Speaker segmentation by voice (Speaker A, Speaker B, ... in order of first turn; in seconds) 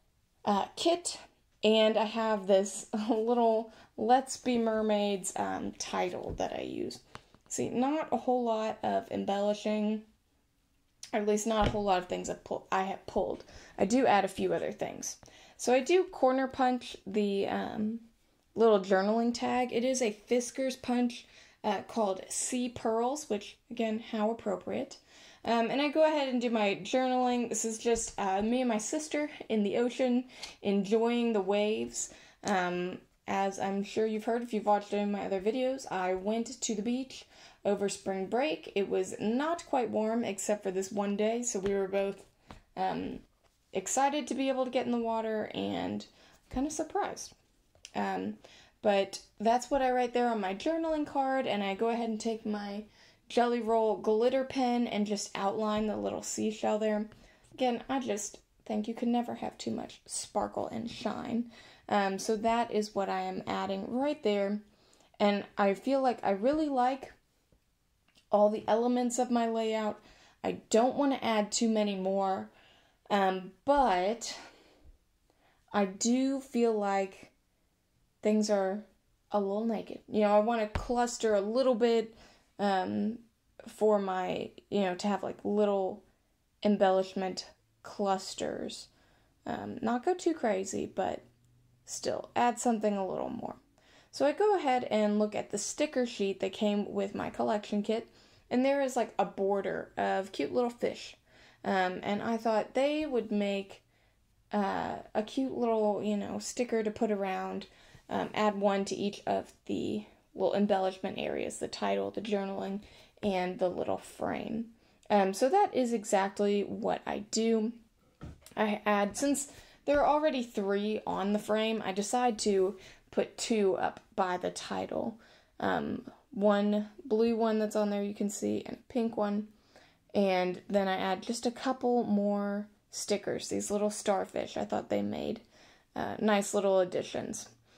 Speaker A: 0.5-10.1, 11.1-47.3, 48.0-64.6, 65.2-67.2, 68.3-72.5, 73.1-74.4, 75.7-77.3, 78.2-86.0, 86.6-88.9, 89.5-91.2, 91.9-93.6, 94.1-103.8, 104.5-117.8, 118.6-129.5, 130.1-135.4, 135.9-137.5